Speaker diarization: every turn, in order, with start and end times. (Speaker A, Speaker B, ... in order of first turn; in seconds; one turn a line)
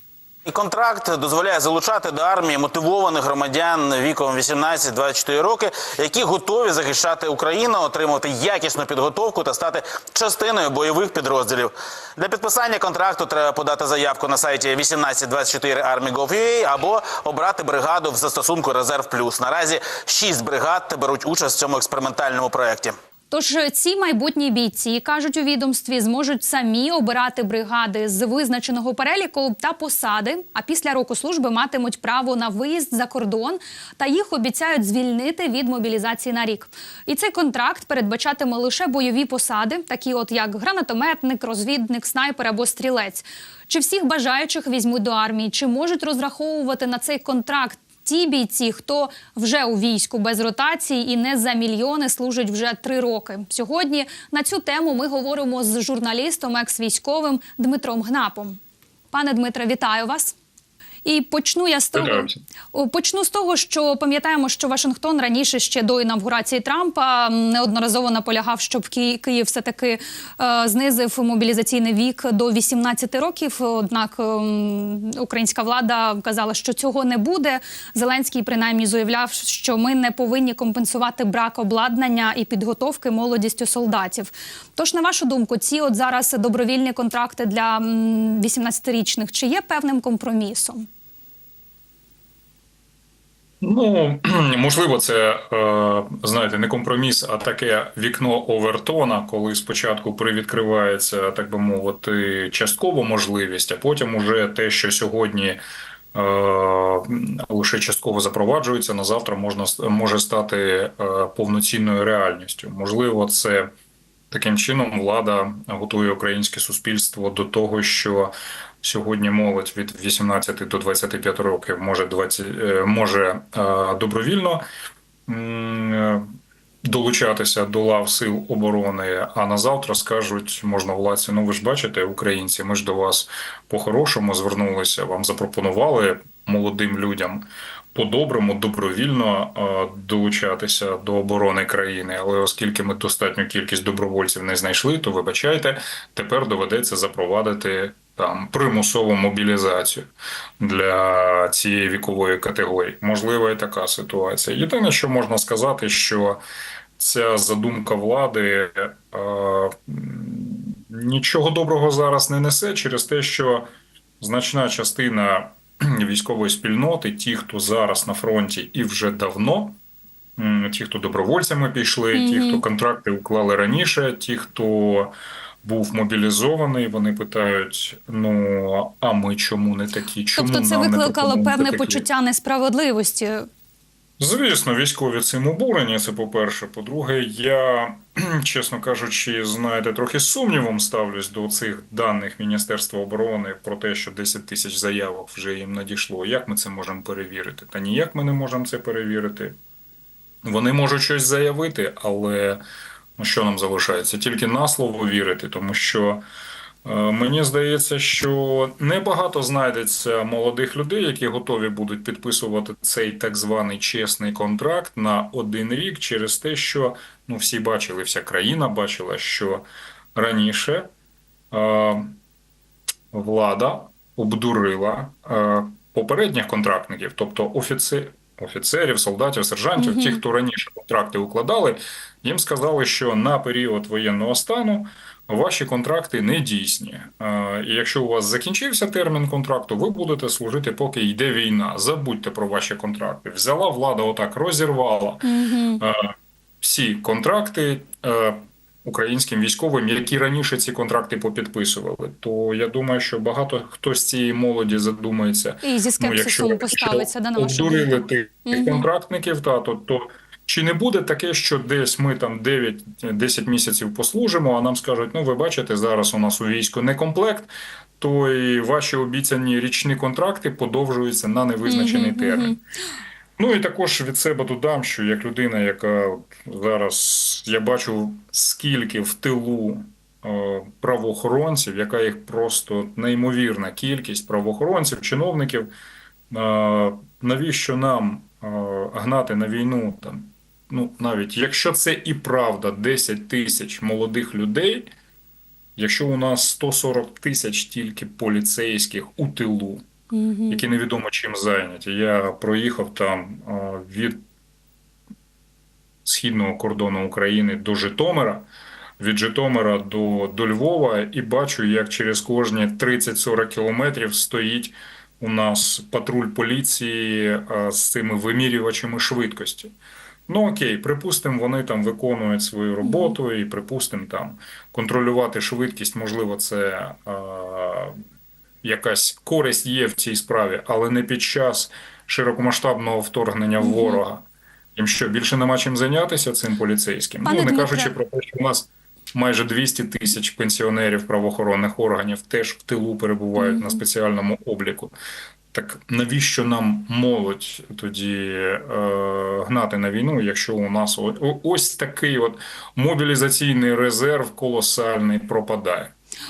Speaker A: 0.5-22.9
Speaker B: 23.3-58.6
Speaker B: 59.1-60.3
Speaker B: 61.0-90.9
Speaker C: 61.9-62.4
Speaker C: 93.6-105.6
Speaker C: 106.1-113.7
Speaker C: 114.3-124.6
Speaker C: 125.3-126.2
Speaker C: 126.8-150.1
Speaker C: 150.6-156.4
Speaker C: 157.0-163.7
Speaker C: 164.2-169.8
Speaker C: 170.4-182.1
Speaker B: 172.1-172.6
Speaker B: 180.3-183.5
Speaker C: 184.2-199.6
Speaker C: 200.4-202.6
Speaker C: 203.2-206.2
Speaker C: 206.8-220.9
Speaker C: 221.5-222.2
Speaker C: 223.1-245.2
Speaker B: 229.8-230.2
Speaker B: 245.2-245.8
Speaker C: 246.6-272.6
Speaker B: 255.6-258.9
Speaker B: 271.6-272.6
Speaker C: 273.4-285.7
Speaker C: 286.3-294.9
Speaker C: 295.8-299.8
Speaker B: 300.1-300.6
Speaker C: 300.5-304.2
Speaker C: 306.0-308.5
Speaker C: 309.0-319.7
Speaker C: 320.3-327.9
Speaker B: 322.8-323.1
Speaker C: 328.6-344.9
Speaker B: 333.6-334.0
Speaker B: 337.2-337.9
Speaker B: 343.4-343.8
Speaker C: 345.5-355.9